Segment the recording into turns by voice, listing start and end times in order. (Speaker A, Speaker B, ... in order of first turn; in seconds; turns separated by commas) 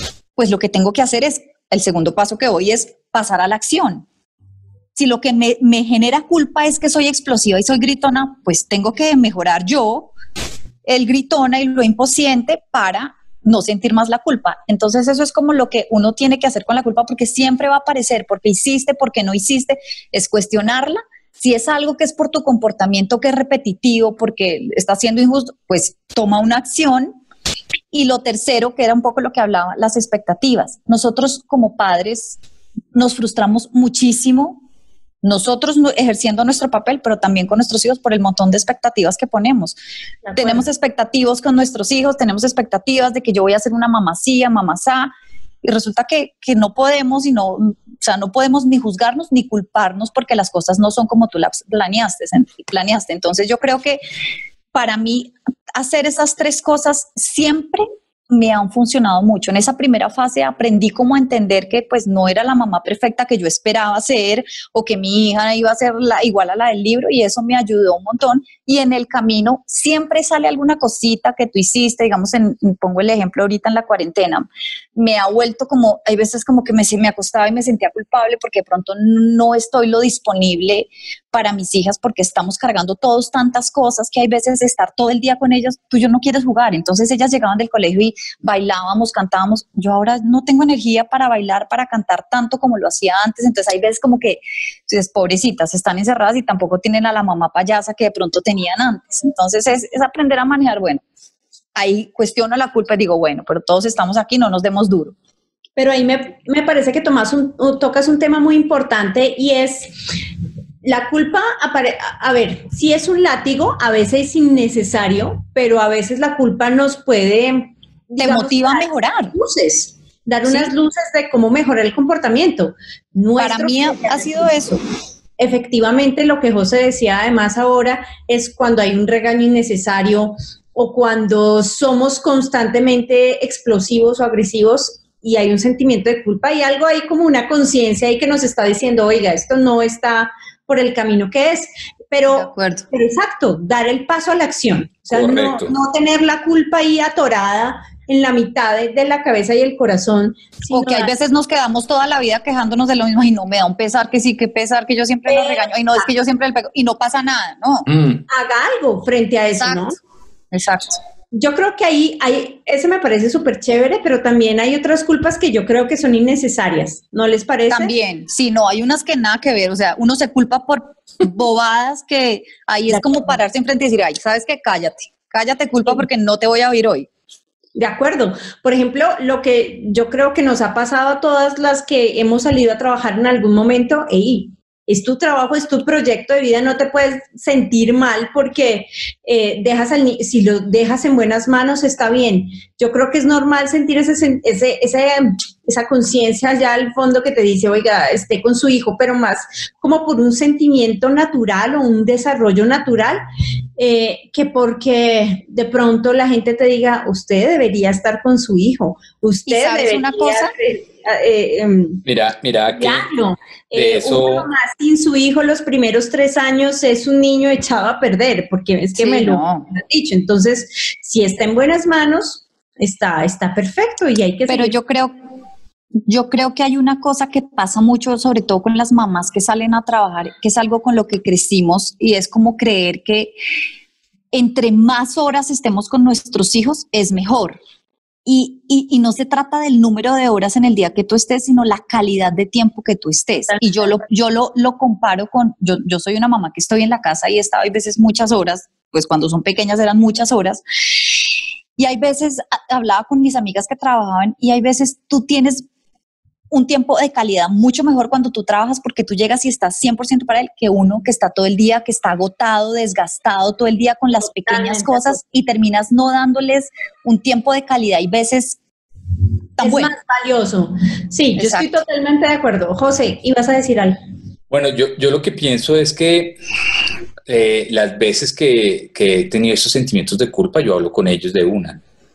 Speaker A: 0.4-4.0, Speaker A: 5.0-10.1, Speaker A: 10.8-27.2, Speaker A: 27.9-32.4, Speaker A: 32.9-34.6, Speaker A: 35.2-39.8, Speaker B: 40.3-40.6, Speaker A: 40.3-45.1, Speaker A: 45.6-54.0, Speaker A: 54.7-101.0, Speaker A: 101.8-105.1, Speaker B: 105.8-110.0, Speaker B: 110.8-124.8, Speaker A: 118.2-119.3, Speaker A: 120.5-120.7, Speaker A: 123.4-124.8, Speaker B: 125.4-151.1, Speaker A: 142.3-142.8, Speaker C: 145.1-145.8, Speaker A: 150.7-157.9, Speaker B: 155.3-155.7, Speaker C: 157.9-158.2, Speaker B: 158.3-160.0, Speaker A: 159.6-159.9, Speaker A: 160.5-161.0, Speaker B: 161.3-167.9, Speaker A: 167.7-177.1, Speaker B: 172.9-173.3, Speaker B: 177.8-203.2, Speaker B: 203.8-212.0, Speaker A: 209.5-210.5, Speaker C: 212.1-213.1, Speaker B: 212.8-224.8, Speaker C: 213.7-214.5, Speaker A: 219.0-219.7, Speaker A: 224.5-225.1, Speaker A: 226.1-233.3, Speaker A: 234.3-237.6, Speaker A: 238.3-250.6, Speaker A: 251.8-255.7, Speaker A: 256.5-268.6, Speaker B: 264.2-265.2, Speaker A: 269.6-269.9, Speaker B: 269.6-274.0, Speaker A: 271.4-271.8, Speaker C: 274.5-276.4, Speaker C: 277.3-281.8